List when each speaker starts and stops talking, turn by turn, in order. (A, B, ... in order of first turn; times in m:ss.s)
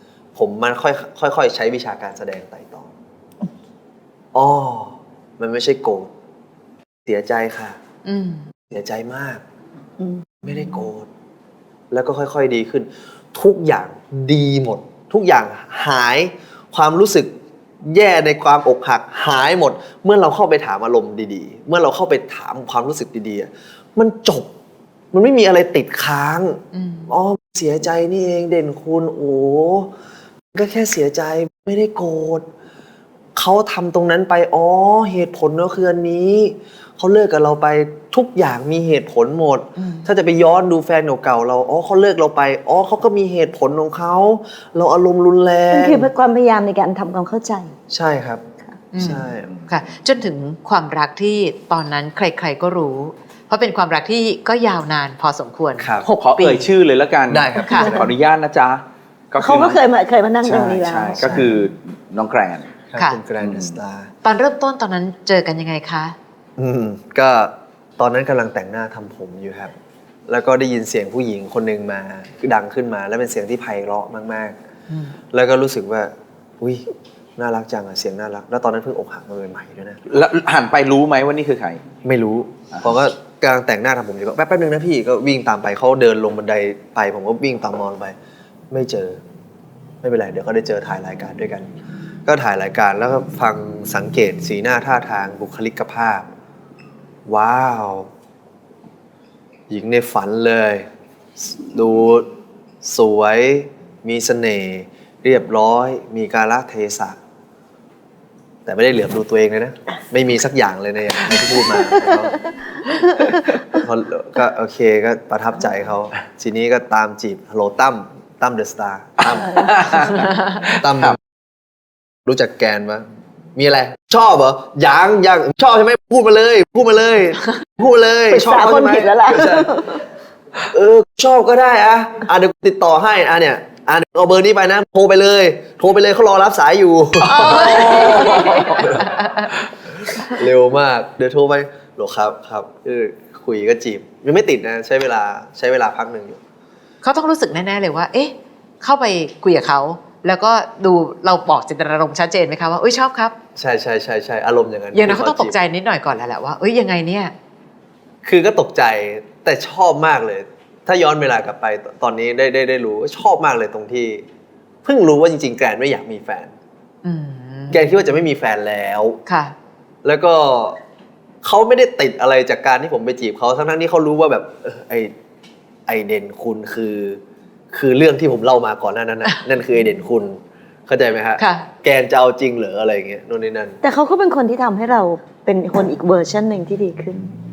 0:00.3-0:02.9 A
0:04.3-0:06.1 A
0:07.0-0:07.8 A
0:08.0-0:08.5 B
0:08.7-0:09.4 A
0:10.4-0:11.1 A
0:11.9-0:17.3 A
0:17.8-0:24.5 A
0:25.1-0:29.9 A
0:26.7-0:27.1 B
0:30.5-0:32.4 A
0:33.3-0:46.1 A
0:39.8-0:40.1 B
0:45.7-0:47.7 C
0:47.9-0:48.4 A
0:48.9-0:56.7 B
0:49.0-0:49.5 A
0:55.8-0:56.1 A
0:56.2-0:59.8 D
0:57.3-0:58.1 A
0:57.6-0:58.0 B
0:59.4-1:01.4 C
1:00.4-1:02.7 D
1:01.2-1:01.5 A
1:02.9-1:04.1 A
1:03.4-1:03.7 D
1:04.2-1:06.1 B
1:06.6-1:09.7 A
1:10.3-1:14.6 A
1:15.3-1:20.0 A
1:20.1-1:21.8 D
1:22.0-1:28.1 A
1:28.7-1:29.2 A
1:30.0-1:31.7 A
1:32.2-1:36.3 A
1:37.2-1:38.1 A
1:39.7-1:40.8 A
1:41.4-1:42.3 A
1:42.8-1:47.2 A
1:48.6-1:52.4 A
1:53.4-2:01.2 A
1:59.6-2:00.3 D
2:02.2-2:09.7 A
2:08.3-2:10.0 C
2:10.7-2:19.0 A
2:17.4-2:19.5 B
2:17.4-2:18.6 C
2:17.9-2:18.9 D
2:20.0-2:26.4 A
2:27.0-2:33.3 B
2:33.6-2:35.6 A
2:34.9-2:37.3 B
2:38.2-2:44.2 A
2:44.8-2:46.5 A
2:47.0-2:47.8 B
2:47.7-2:49.2 A
2:49.2-2:49.5 B
2:50.0-2:50.8 A
2:51.4-2:55.1 A
2:55.9-2:57.2 A
2:57.7-3:03.8 A
3:01.4-3:01.6 B
3:03.8-3:07.3 C